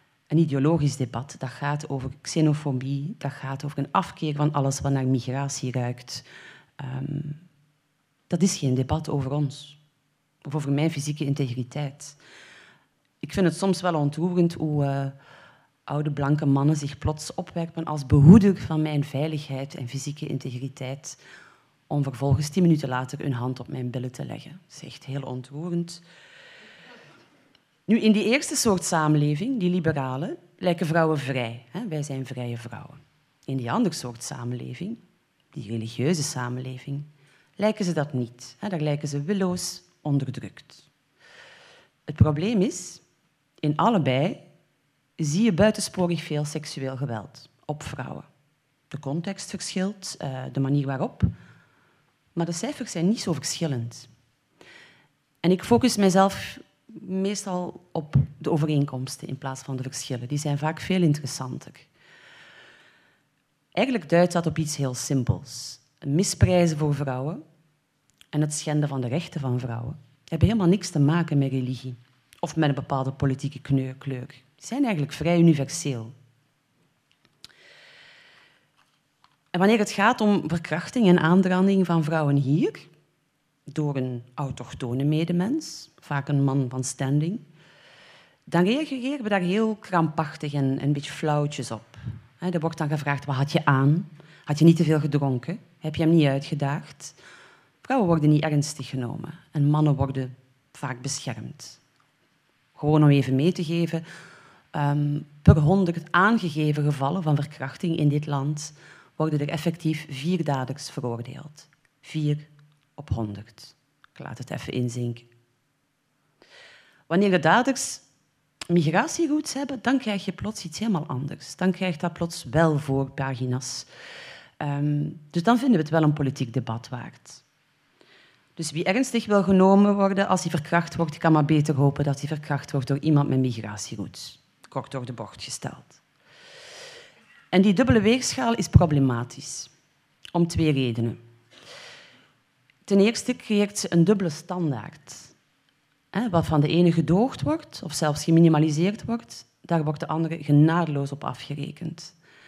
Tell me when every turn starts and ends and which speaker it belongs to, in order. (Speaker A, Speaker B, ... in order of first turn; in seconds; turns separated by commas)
Speaker A: 0.3-6.3, Speaker A: 6.8-7.5, Speaker A: 8.3-9.8, Speaker A: 10.4-12.2, Speaker A: 13.2-15.2, Speaker A: 15.9-21.2, Speaker A: 21.9-26.0, Speaker A: 27.9-35.0, Speaker A: 35.5-40.9, Speaker A: 42.1-43.0, Speaker A: 43.6-44.5, Speaker A: 45.2-48.3, Speaker A: 48.9-51.4, Speaker A: 52.4-54.1, Speaker A: 55.4-61.9, Speaker A: 63.8-67.4, Speaker A: 68.3-76.2, Speaker A: 79.5-82.9, Speaker A: 83.7-87.4, Speaker A: 88.5-97.2, Speaker A: 97.8-101.8, Speaker A: 102.8-104.1, Speaker A: 104.7-115.3, Speaker A: 117.1-118.0, Speaker A: 118.7-123.9, Speaker A: 124.6-127.4, Speaker A: 128.6-136.0, Speaker A: 137.5-139.7, Speaker A: 140.3-141.2, Speaker A: 142.9-145.3, Speaker A: 146.1-152.1